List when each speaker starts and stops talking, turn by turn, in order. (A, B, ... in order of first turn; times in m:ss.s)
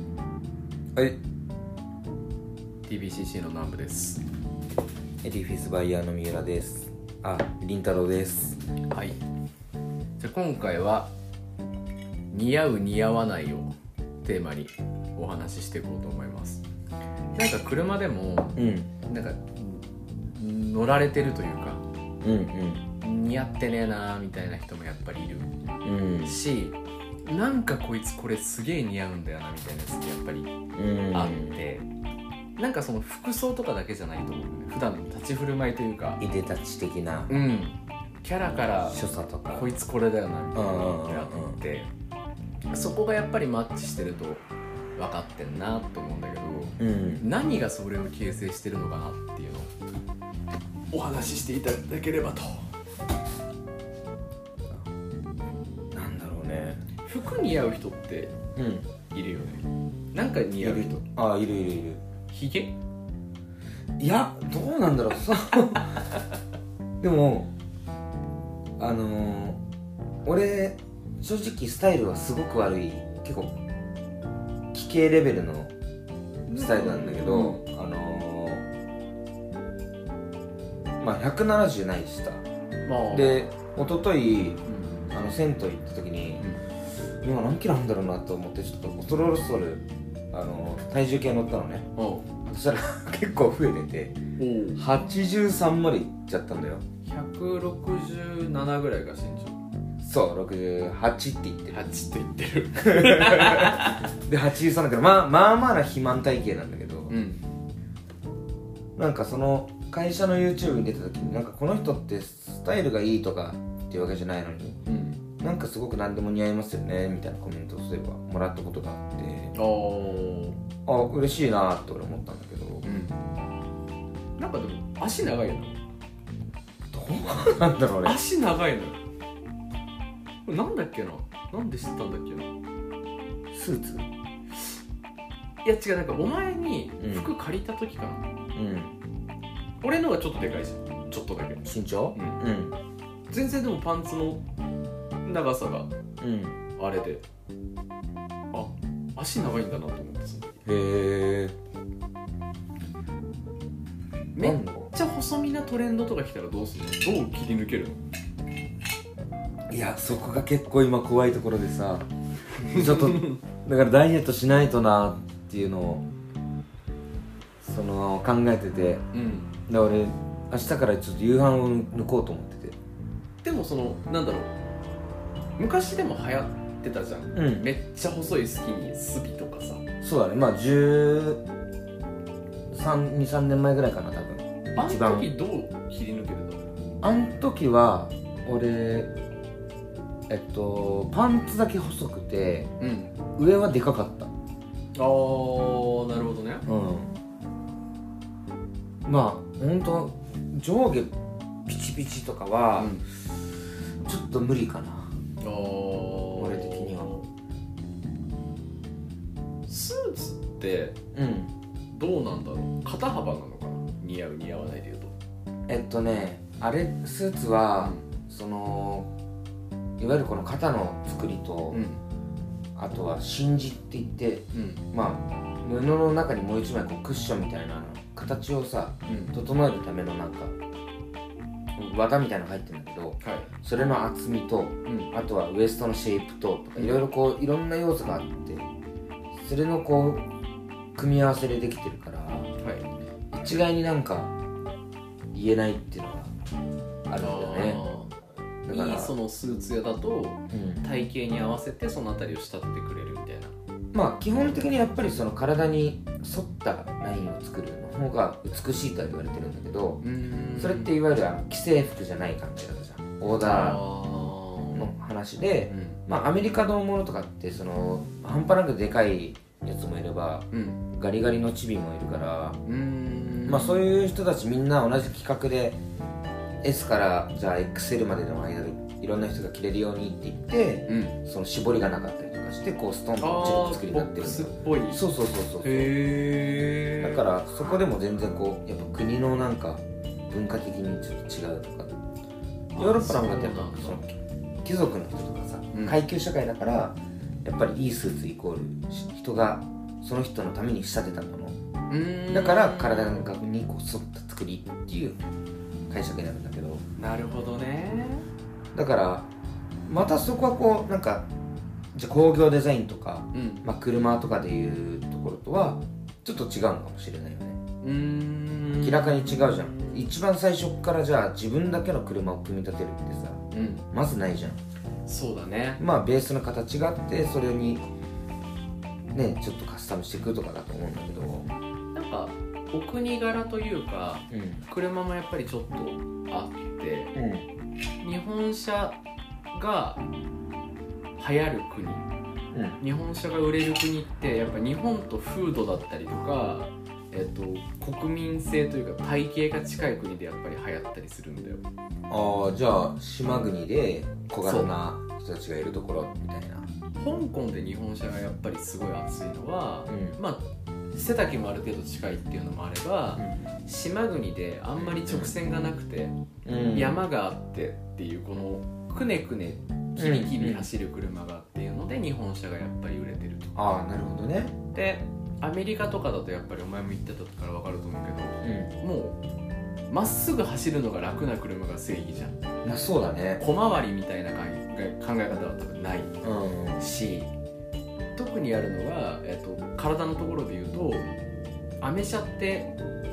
0:02.8-0:04.2 A
0:05.2-0:08.6 B
0:08.9-0:09.2 A
0:10.2-0:11.1 A
0:12.3-0:16.6 A
0:17.3-0:21.8 A
0:18.6-0:18.9 B
0:22.2-0:22.8 B
0:23.0-0:25.5 A
0:25.8-0:26.4 B
0:26.2-0:30.5 A
0:30.7-0:31.6 B
0:31.1-0:31.8 A
0:32.6-0:36.2 A
0:36.2-0:37.3 B
0:37.3-0:41.9 A
0:38.8-0:39.7 B
0:40.5-0:41.6 B
0:42.7-0:44.4 A
0:45.0-0:49.7 A
0:46.8-0:47.2 B
0:50.9-0:52.7 A
0:55.9-0:56.8 B
0:57.0-0:58.3 A
0:58.6-0:58.9 B
0:59.1-1:01.0 A
1:00.6-1:02.0 B
1:02.3-1:02.7 A
1:04.0-1:06.0 B
1:07.0-1:07.5 B
1:08.8-1:09.6 B
1:10.2-1:13.5 B
1:14.7-1:15.7 B
1:16.5-1:17.6 A
1:16.5-1:18.6 B
1:21.0-1:22.4 B
1:22.8-1:23.4 A
1:23.1-1:26.5 B
1:24.6-1:25.0 A
1:27.2-1:31.9 B
1:32.0-1:32.3 A
1:32.4-1:34.2 B
1:34.4-1:34.8 A
1:34.8-1:36.8 B
1:37.0-1:39.6 A
1:40.0-1:41.8 B
1:41.7-1:44.1 A
1:42.9-1:47.1 B
1:47.1-1:47.4 A
1:49.0-1:54.8 B
1:54.9-1:55.2 A
1:55.4-1:59.5 B
1:59.5-2:00.6 A
2:00.8-2:02.9 B
2:02.8-2:03.2 A
2:04.4-2:05.8 A
2:06.9-2:08.2 B
2:08.0-2:09.0 A
2:10.4-2:12.5 A
2:13.5-2:14.0 B
2:15.6-2:18.2 A
2:17.0-2:17.3 B
2:18.5-2:18.9 B
2:19.8-2:22.4 A
2:21.6-2:22.8 B
2:23.3-2:24.4 A
2:25.2-2:25.9 A
2:26.2-2:26.6 B
2:26.8-2:27.2 A
2:28.5-2:30.6 A
2:30.6-2:31.5 B
2:34.3-2:38.0 A
2:34.4-2:34.9 B
2:39.7-2:42.1 B
2:42.6-2:43.4 A
2:42.7-2:46.1 B
2:47.6-2:49.0 B
2:49.1-2:49.5 A
2:49.7-2:52.8 B
2:53.4-2:54.5 A
2:55.6-2:59.8 A
2:57.3-2:57.7 B
3:00.0-3:01.4 B
3:02.7-3:05.3 B
3:04.8-3:06.6 A
3:07.0-3:09.1 B
3:10.3-3:12.7 B
3:12.8-3:13.1 A
3:13.4-3:14.3 B
3:14.9-3:16.6 A
3:16.7-3:17.1 B
3:19.0-3:21.1 B
3:21.6-3:23.5 B
3:22.8-3:23.0 A
3:24.0-3:25.1 B
3:25.4-3:27.2 A
3:26.4-3:27.2 B
3:29.6-3:31.0 A
3:31.1-3:31.5 B
3:31.9-3:35.1 A
3:35.7-3:39.1 B
3:40.0-3:41.8 B
3:41.7-3:42.0 A
3:42.8-3:50.5 B
3:44.5-3:44.8 A
3:49.1-3:49.4 A
3:51.8-3:58.7 B
3:53.2-3:53.5 A
3:54.8-3:55.1 A
3:56.8-3:57.0 A
3:59.4-4:00.2 B
4:01.0-4:02.5 B
4:02.6-4:02.9 A
4:03.3-4:04.3 B
4:05.3-4:06.3 B
4:07.1-4:07.8 B
4:07.2-4:08.1 A
4:08.6-4:09.2 B
4:08.7-4:13.5 A
4:10.5-4:10.8 B
4:13.9-4:20.0 B
4:14.3-4:14.7 A
4:20.0-4:20.9 A
4:20.6-4:23.8 B
4:23.4-4:24.9 A
4:24.7-4:32.6 B
4:25.7-4:26.0 A
4:30.5-4:30.8 A
4:32.6-4:33.8 A
4:33.4-4:35.8 B
4:36.6-4:46.0 B
4:40.9-4:41.2 A
4:43.2-4:45.0 A
4:45.6-4:47.3 A
4:47.0-4:52.0 B
4:52.7-4:54.0 A
4:52.7-5:01.6 B
4:55.7-4:56.0 A
5:01.9-5:03.3 A
5:02.3-5:05.2 B
5:05.9-5:06.8 B
5:07.0-5:08.2 A
5:08.7-5:09.3 B
5:09.9-5:11.3 B
5:11.9-5:17.6 B
5:13.3-5:13.6 A
5:17.8-5:20.1 A
5:18.7-5:24.6 B
5:23.5-5:23.8 A
5:25.0-5:25.8 A
5:25.8-5:27.8 B
5:29.1-5:31.5 B
5:31.9-5:37.1 A
5:34.3-5:34.6 B
5:37.1-5:37.4 B
5:38.0-5:39.0 A
5:39.5-5:40.0 A
5:41.2-5:42.1 A
5:42.5-5:42.8 B
5:42.8-5:51.6 A
5:52.1-5:56.7 B
5:54.4-5:54.7 A
5:57.0-6:06.1 A
5:59.9-6:00.2 B
6:03.2-6:03.5 B
6:04.8-6:05.4 B
6:06.4-6:07.0 B
6:06.7-6:13.5 A
6:10.0-6:10.7 B
6:13.5-6:14.6 B
6:14.7-6:19.2 A
6:18.4-6:18.7 B
6:19.9-6:22.4 A
6:22.6-6:23.4 B
6:23.4-6:26.1 A
6:26.2-6:26.8 B
6:26.8-6:27.3 A
6:28.2-6:31.1 A
6:31.8-6:32.7 A